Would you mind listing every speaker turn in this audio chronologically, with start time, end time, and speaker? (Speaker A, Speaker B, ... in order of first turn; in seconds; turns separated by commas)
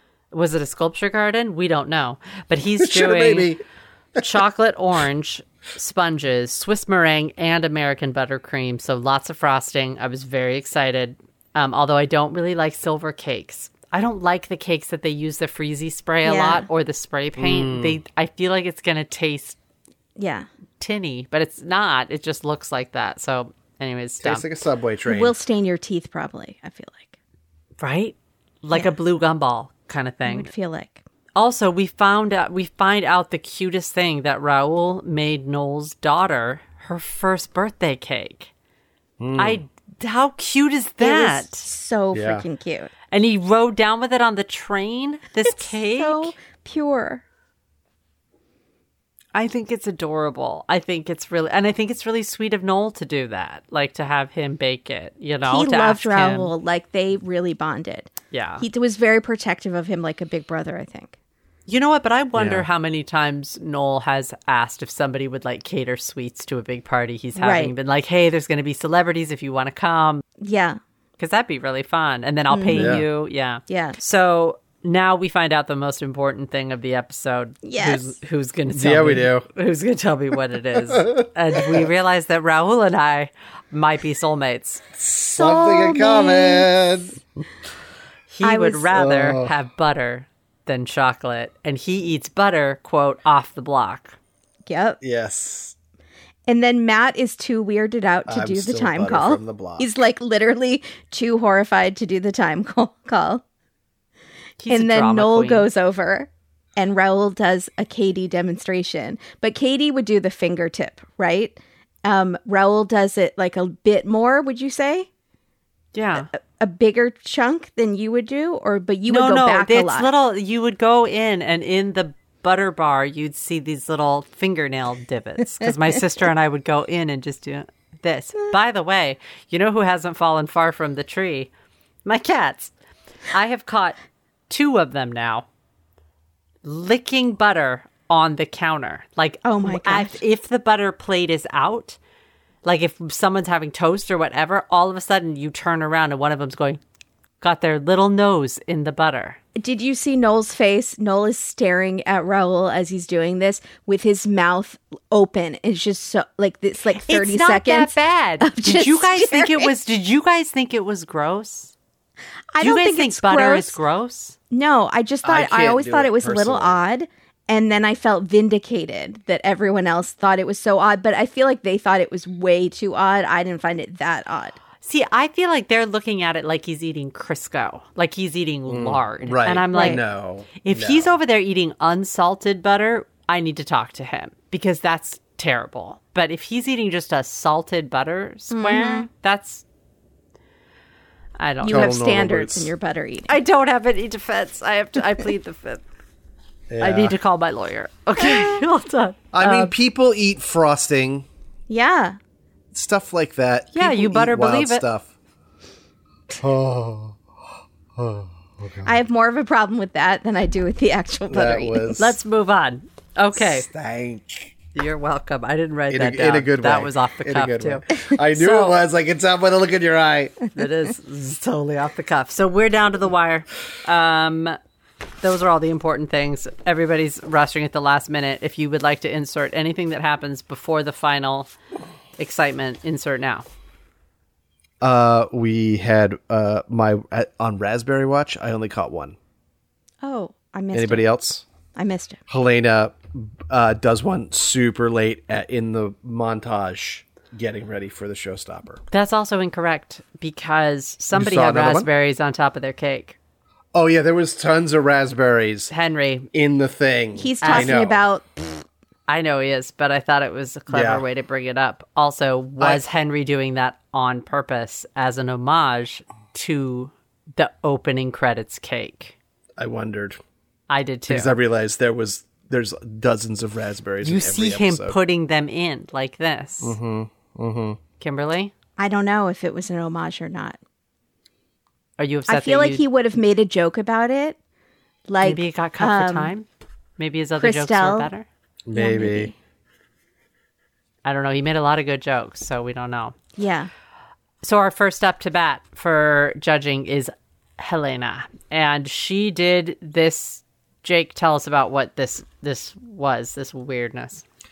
Speaker A: 0.3-3.5, Speaker B: 2.8-3.6, Speaker A: 4.2-19.6, Speaker C: 16.2-16.6, Speaker B: 17.4-18.0, Speaker C: 20.2-20.5, Speaker A: 20.8-24.5, Speaker B: 24.2-25.3, Speaker C: 25.1-27.1, Speaker A: 27.8-30.5, Speaker C: 30.2-31.0, Speaker A: 31.4-38.5, Speaker B: 39.2-39.6, Speaker A: 39.4-41.7, Speaker C: 41.0-42.9, Speaker B: 42.1-42.4, Speaker A: 43.1-46.3, Speaker C: 45.5-47.2, Speaker A: 49.3-56.5, Speaker C: 55.4-61.1, Speaker A: 58.3-58.6, Speaker A: 61.7-70.2, Speaker B: 62.3-62.6, Speaker C: 67.3-67.7, Speaker C: 70.4-70.8, Speaker A: 71.2-84.8, Speaker C: 72.5-73.0, Speaker B: 72.7-73.0, Speaker C: 73.7-74.0, Speaker C: 77.6-78.2, Speaker B: 78.7-79.5, Speaker B: 80.9-81.9, Speaker B: 85.0-87.2, Speaker C: 85.3-86.9, Speaker A: 88.3-94.2, Speaker C: 88.4-88.9, Speaker B: 88.9-89.5, Speaker C: 94.7-95.0, Speaker B: 95.0-95.7, Speaker C: 96.5-103.4, Speaker B: 98.3-99.9, Speaker A: 104.6-105.7, Speaker C: 104.7-115.1, Speaker A: 115.9-116.3, Speaker C: 116.3-120.1, Speaker A: 119.1-131.5, Speaker A: 132.0-132.7, Speaker A: 133.3-133.9, Speaker A: 134.5-135.4, Speaker A: 136.6-142.0, Speaker C: 139.4-140.2, Speaker A: 142.6-146.8, Speaker A: 147.4-149.4, Speaker C: 149.6-159.7, Speaker A: 156.9-161.7, Speaker C: 162.5-163.8, Speaker A: 162.6-164.3, Speaker C: 164.5-174.6, Speaker B: 165.2-166.8, Speaker A: 174.8-180.0, Speaker B: 178.7-181.2, Speaker C: 179.7-180.0, Speaker A: 180.6-189.6, Speaker C: 188.5-189.1, Speaker A: 191.4-191.9, Speaker B: 191.6-192.7, Speaker C: 191.6-193.3, Speaker A: 193.3-195.8, Speaker B: 196.7-197.2, Speaker A: 196.8-199.7, Speaker C: 198.2-198.6, Speaker B: 199.3-201.2, Speaker C: 201.7-202.2, Speaker B: 202.7-205.1, Speaker A: 203.7-204.8, Speaker B: 206.4-207.2, Speaker B: 207.9-208.9, Speaker C: 208.8-212.0, Speaker B: 211.3-212.2, Speaker A: 212.0-213.7, Speaker B: 213.3-214.5, Speaker A: 214.7-218.8, Speaker B: 215.9-220.4, Speaker A: 220.5-224.6, Speaker A: 225.2-231.5, Speaker A: 232.2-233.4, Speaker B: 234.8-239.2, Speaker C: 240.0-241.0, Speaker B: 240.7-241.4, Speaker C: 241.8-242.2, Speaker B: 242.3-248.8, Speaker A: 248.9-253.2, Speaker B: 251.1-251.9, Speaker B: 253.7-255.7, Speaker A: 255.7-256.3, Speaker B: 256.3-258.0, Speaker C: 257.1-258.6, Speaker A: 257.4-257.7, Speaker A: 259.1-269.1, Speaker B: 260.7-261.0, Speaker B: 269.6-270.2, Speaker A: 270.7-271.3, Speaker B: 271.1-275.0, Speaker A: 274.0-276.8, Speaker B: 276.6-277.8, Speaker A: 278.0-278.5, Speaker C: 278.8-280.6, Speaker A: 282.0-282.8, Speaker C: 282.3-284.4, Speaker C: 285.1-286.3, Speaker A: 285.2-286.4, Speaker A: 287.0-288.2, Speaker C: 287.4-288.1, Speaker B: 288.6-289.3, Speaker C: 288.7-289.3, Speaker A: 291.0-293.1, Speaker C: 293.4-293.7, Speaker A: 294.4-304.2